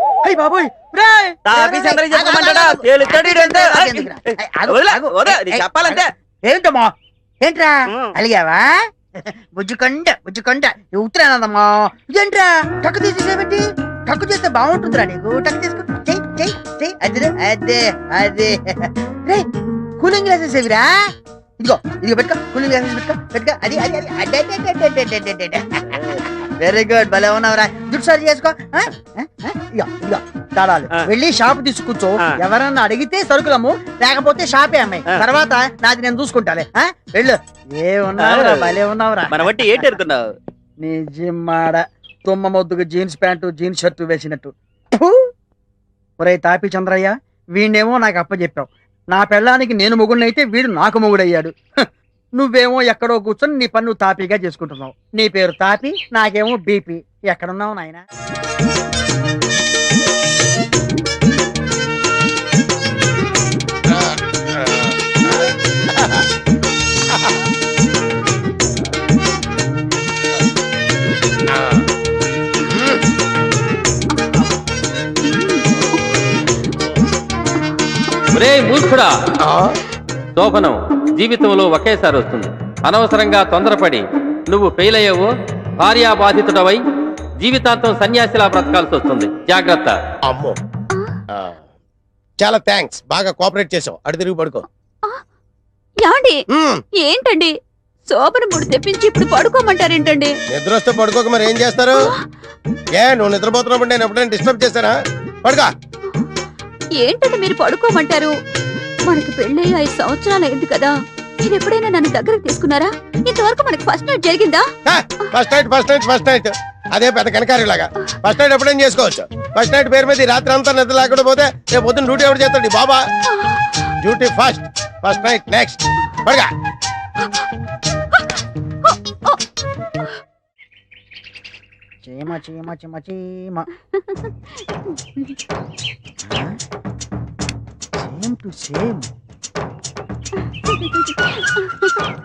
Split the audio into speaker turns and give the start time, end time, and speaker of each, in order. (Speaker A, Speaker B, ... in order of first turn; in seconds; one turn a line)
Speaker A: 0.2-8.8
Speaker B: 1.4-6.1
Speaker A: 9.4-19.5
Speaker A: 20.0-21.0
Speaker A: 21.6-39.8
Speaker B: 38.2-38.8
Speaker B: 39.3-40.2
Speaker A: 40.8-45.3
Speaker A: 46.2-51.9
Speaker A: 52.4-58.0
Speaker C: 63.9-66.2
Speaker C: 67.1-67.3
Speaker C: 71.5-71.8
Speaker C: 72.6-73.0
Speaker D: 75.3-75.6
Speaker E: 78.3-79.1
Speaker C: 79.4-79.7
Speaker E: 80.3-86.8
Speaker E: 87.4-90.0
Speaker C: 90.2-90.6
Speaker C: 92.4-94.6
Speaker D: 96.0-96.4
Speaker C: 96.5-96.8
Speaker D: 97.0-97.5
Speaker D: 98.1-100.3
Speaker C: 100.5-102.1
Speaker C: 102.9-105.7
Speaker D: 107.0-108.3
Speaker D: 109.1-114.7
Speaker C: 114.8-123.0
Speaker C: 124.0-126.5
Speaker D: 128.9-129.3
Speaker A: 132.1-133.7
Speaker A: 136.2-136.6
Speaker A: 138.0-139.1
Speaker D: 140.7-142.0